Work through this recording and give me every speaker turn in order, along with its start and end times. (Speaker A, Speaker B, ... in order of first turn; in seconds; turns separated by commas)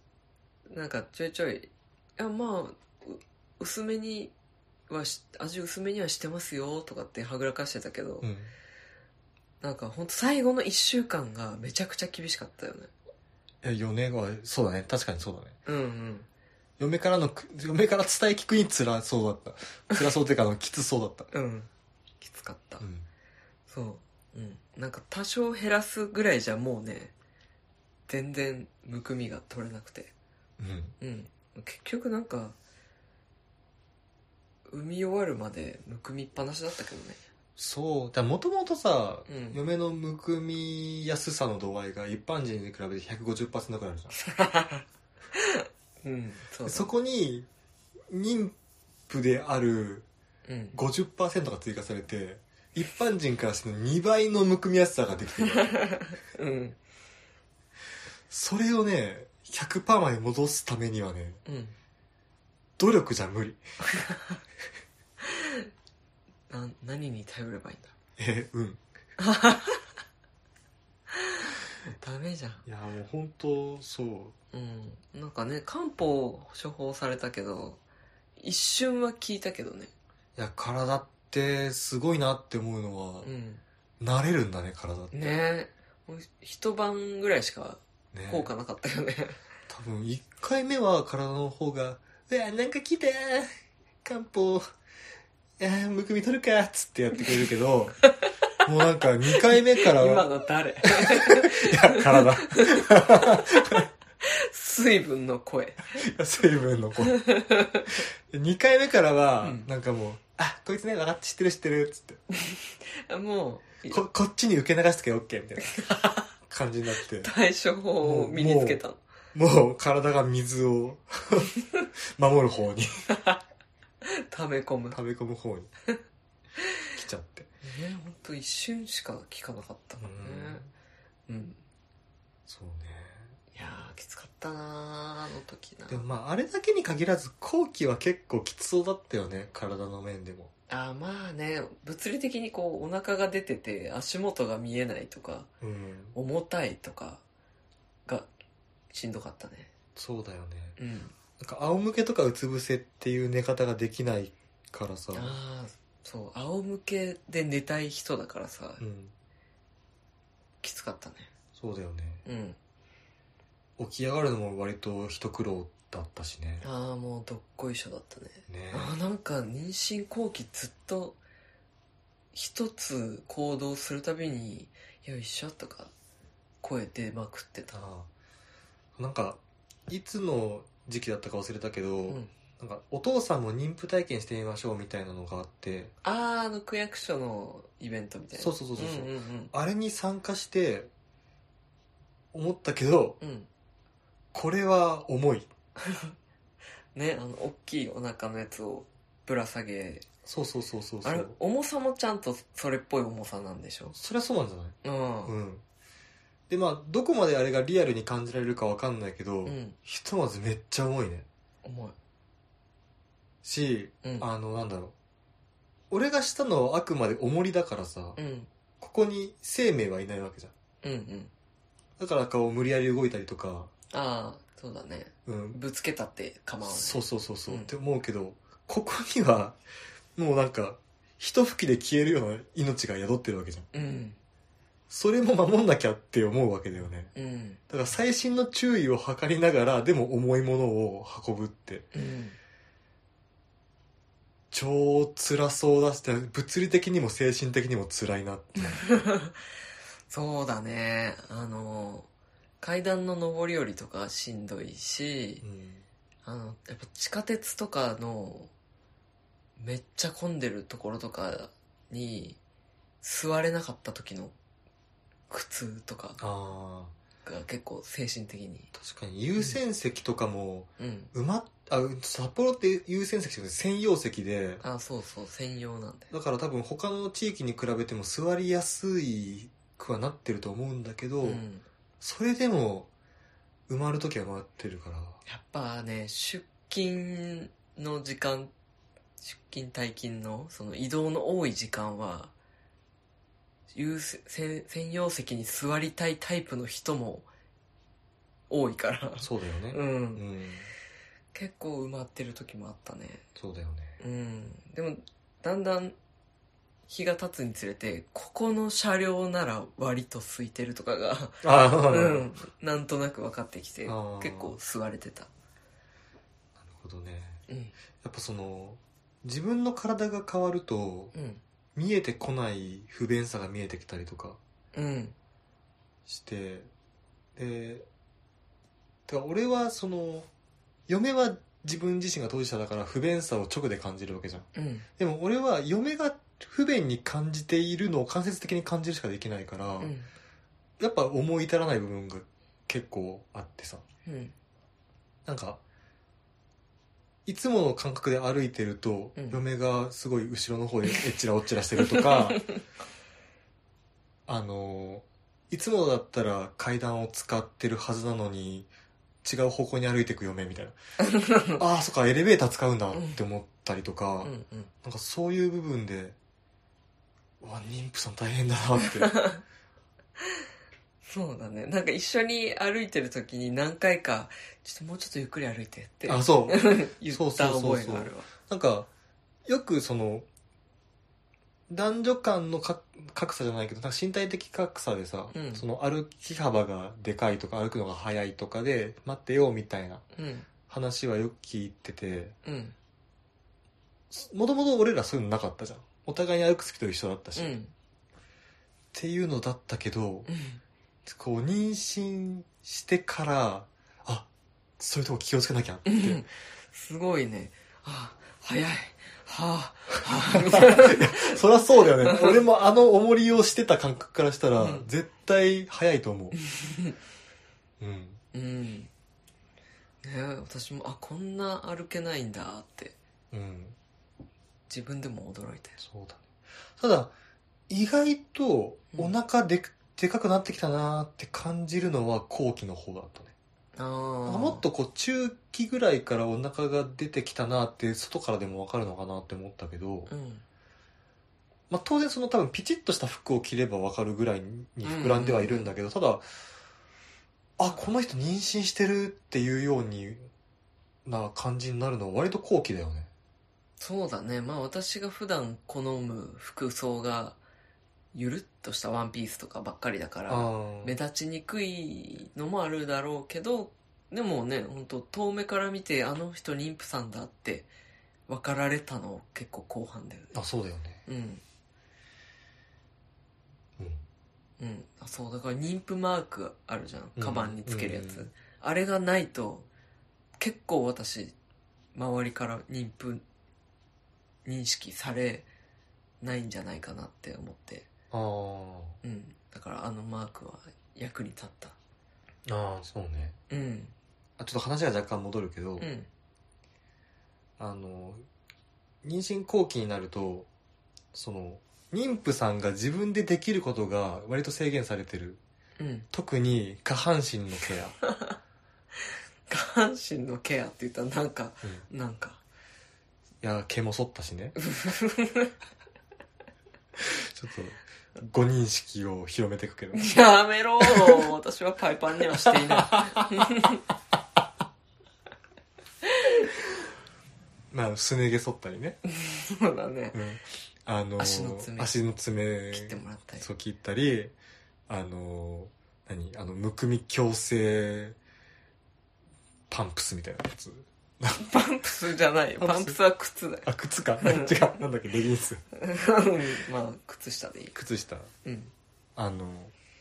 Speaker A: 0.7-4.3, Speaker A: 4.9-8.3, Speaker B: 8.2-8.5, Speaker A: 9.6-12.9, Speaker B: 13.6-15.6, Speaker A: 15.7-16.3, Speaker B: 16.8-21.3, Speaker A: 21.3-21.7, Speaker A: 22.2-22.8, Speaker B: 22.8-23.1, Speaker A: 23.7-27.1, Speaker A: 28.1-30.1, Speaker B: 30.6-31.0, Speaker A: 31.0-32.6, Speaker A: 34.7-37.2, Speaker B: 37.6-44.2, Speaker A: 39.3-39.6, Speaker A: 44.2-44.8, Speaker A: 45.4-46.9, Speaker B: 46.7-47.5, Speaker B: 48.1-48.5, Speaker B: 49.1-50.1, Speaker A: 50.5-50.8, Speaker B: 50.7-55.8, Speaker A: 55.6-56.8, Speaker B: 58.3-61.4, Speaker A: 61.5-61.8, Speaker B: 62.8-63.6, Speaker A: 63.9-64.4, Speaker A: 65.2-65.7, Speaker A: 66.5-68.0, Speaker B: 68.2-68.8, Speaker A: 69.2-69.9, Speaker A: 71.2-72.6, Speaker B: 72.7-74.4, Speaker A: 74.5-77.8, Speaker A: 78.4-79.9, Speaker B: 80.4-83.3, Speaker A: 83.2-83.6, Speaker B: 84.0-85.4, Speaker A: 85.1-89.4, Speaker B: 88.1-88.5, Speaker B: 89.7-93.5, Speaker B: 94.0-94.7, Speaker B: 95.6-98.0, Speaker B: 98.7-100.3, Speaker A: 99.3-106.0, Speaker B: 101.0-103.9, Speaker B: 106.0-107.2, Speaker A: 107.1-108.0, Speaker B: 108.3-112.2, Speaker A: 109.4-109.7, Speaker A: 112.4-114.0, Speaker B: 113.9-115.8, Speaker A: 115.8-116.3, Speaker B: 116.3-117.3, Speaker A: 117.2-119.0, Speaker B: 118.0-118.8, Speaker B: 119.3-121.5, Speaker B: 122.2-123.1, Speaker A: 123.1-123.4, Speaker A: 124.0-125.0, Speaker B: 124.9-125.7, Speaker B: 126.9-127.5, Speaker A: 127.6-130.6, Speaker B: 130.0-130.7, Speaker A: 131.3-131.6, Speaker B: 132.5-133.4, Speaker A: 133.5-136.0, Speaker B: 135.9-140.5, Speaker A: 140.7-145.5, Speaker B: 145.6-146.2, Speaker A: 146.2-147.2, Speaker A: 148.9-149.7, Speaker B: 150.0-150.8, Speaker A: 150.8-151.2, Speaker B: 151.4-155.4, Speaker A: 155.1-158.8, Speaker B: 158.8-159.1, Speaker A: 160.6-161.3, Speaker B: 161.6-162.2, Speaker A: 162.3-162.6, Speaker B: 163.8-166.7, Speaker A: 166.6-171.2, Speaker B: 168.5-169.0, Speaker A: 172.3-175.9, Speaker A: 176.6-177.7, Speaker B: 177.7-178.1, Speaker B: 179.0-185.9, Speaker A: 186.0-189.5, Speaker B: 188.4-190.9, Speaker B: 192.3-193.2, Speaker A: 193.2-193.5, Speaker B: 194.3-195.5, Speaker A: 195.8-196.1, Speaker A: 196.9-200.1, Speaker B: 200.2-201.4, Speaker A: 201.0-203.9, Speaker B: 203.9-205.6, Speaker A: 204.8-205.3, Speaker B: 206.5-211.3, Speaker A: 209.5-209.8, Speaker A: 211.6-211.9, Speaker B: 213.4-214.9, Speaker B: 215.9-218.2, Speaker A: 218.2-218.5, Speaker B: 218.8-220.5, Speaker A: 220.8-221.3, Speaker B: 222.0-223.7, Speaker A: 223.9-227.7, Speaker B: 225.3-225.6, Speaker B: 226.6-229.6, Speaker B: 230.2-233.7, Speaker A: 233.7-234.2, Speaker B: 234.9-237.1, Speaker A: 237.2-237.6, Speaker B: 237.7-241.9, Speaker A: 241.9-242.4, Speaker B: 244.5-248.8, Speaker A: 248.7-249.4, Speaker A: 250.1-252.1, Speaker A: 252.6-255.4, Speaker B: 255.4-255.8, Speaker A: 256.2-258.5, Speaker A: 259.6-262.4, Speaker A: 263.0-264.3, Speaker A: 265.3-266.2, Speaker B: 266.2-266.9, Speaker A: 267.2-268.7, Speaker B: 268.7-274.6, Speaker A: 270.8-271.1, Speaker A: 274.6-276.1, Speaker B: 276.1-281.4, Speaker A: 281.2-281.6, Speaker B: 282.0-282.9, Speaker B: 283.7-285.2, Speaker A: 285.3-288.5, Speaker A: 289.2-292.3, Speaker A: 293.7-297.3, Speaker A: 298.5-300.2, Speaker B: 299.2-300.7, Speaker A: 301.3-303.2, Speaker B: 303.4-304.0, Speaker A: 304.0-306.0, Speaker A: 306.9-315.3, Speaker B: 311.4-312.3, Speaker B: 313.9-314.6, Speaker B: 316.6-317.4, Speaker A: 317.5-317.7, Speaker B: 318.0-321.1, Speaker A: 321.1-321.4, Speaker B: 321.8-324.4, Speaker A: 324.7-325.2, Speaker B: 326.1-326.7, Speaker B: 327.4-327.9, Speaker B: 329.1-330.3, Speaker B: 330.9-339.9, Speaker A: 334.6-334.9, Speaker A: 339.8-340.1, Speaker B: 340.8-343.8, Speaker A: 344.1-344.3, Speaker B: 345.3-345.6, Speaker B: 347.3-352.4, Speaker A: 349.2-349.4, Speaker A: 351.9-352.5, Speaker B: 354.3-358.7, Speaker B: 359.2-360.8, Speaker A: 361.0-361.6, Speaker B: 361.6-364.3, Speaker A: 362.9-363.2, Speaker A: 364.2-364.7, Speaker B: 364.8-366.2, Speaker B: 367.4-369.1, Speaker A: 369.0-369.4, Speaker A: 371.1-378.3, Speaker B: 376.1-378.9, Speaker B: 379.4-380.3, Speaker B: 381.7-390.1, Speaker A: 385.3-385.6, Speaker A: 390.1-390.5, Speaker B: 390.7-392.4, Speaker A: 392.4-392.8, Speaker B: 394.1-397.6, Speaker A: 397.4-397.7, Speaker B: 398.9-400.3, Speaker A: 400.3-400.6, Speaker B: 401.1-404.3, Speaker B: 404.8-406.2, Speaker A: 405.9-412.4, Speaker B: 410.3-416.4, Speaker A: 414.6-414.9, Speaker A: 416.4-416.9, Speaker B: 417.8-418.2, Speaker A: 418.3-418.9, Speaker A: 420.0-423.0, Speaker B: 423.3-423.8, Speaker A: 424.7-425.8, Speaker B: 425.8-427.1, Speaker B: 427.7-433.3, Speaker A: 433.8-434.6, Speaker B: 434.3-440.1, Speaker A: 440.1-440.4, Speaker B: 441.7-446.3, Speaker A: 444.8-445.7, Speaker B: 447.6-450.3, Speaker B: 451.1-453.1, Speaker A: 453.8-457.4, Speaker A: 458.1-467.7, Speaker B: 460.3-460.9, Speaker A: 468.3-470.3, Speaker B: 470.3-471.0, Speaker A: 471.1-471.4, Speaker B: 473.8-474.0, Speaker A: 474.6-479.7, Speaker B: 477.2-478.3, Speaker A: 480.4-481.4, Speaker A: 481.9-483.2, Speaker A: 484.4-485.5, Speaker A: 486.2-487.9, Speaker B: 488.1-489.0, Speaker A: 489.0-491.8, Speaker B: 492.5-493.4, Speaker A: 493.5-493.9, Speaker B: 494.4-495.9, Speaker A: 495.8-496.1, Speaker B: 497.6-498.3, Speaker B: 499.0-500.5, Speaker B: 501.1-505.4, Speaker A: 505.8-506.1, Speaker B: 506.1-508.0, Speaker A: 509.5-512.4, Speaker B: 513.4-514.5, Speaker A: 514.6-515.5, Speaker B: 517.0-520.1, Speaker A: 519.9-523.8, Speaker B: 520.9-521.3, Speaker B: 522.4-523.3, Speaker A: 526.0-526.5, Speaker B: 527.7-529.0, Speaker A: 529.1-530.2, Speaker B: 530.1-534.3, Speaker A: 531.2-532.0, Speaker A: 532.7-533.5, Speaker B: 534.9-538.2, Speaker B: 539.7-541.5, Speaker A: 541.3-543.7, Speaker B: 542.6-543.0, Speaker B: 543.6-545.6, Speaker A: 544.2-544.7, Speaker A: 545.8-547.8, Speaker B: 547.7-548.3, Speaker A: 548.4-548.7, Speaker B: 549.2-549.7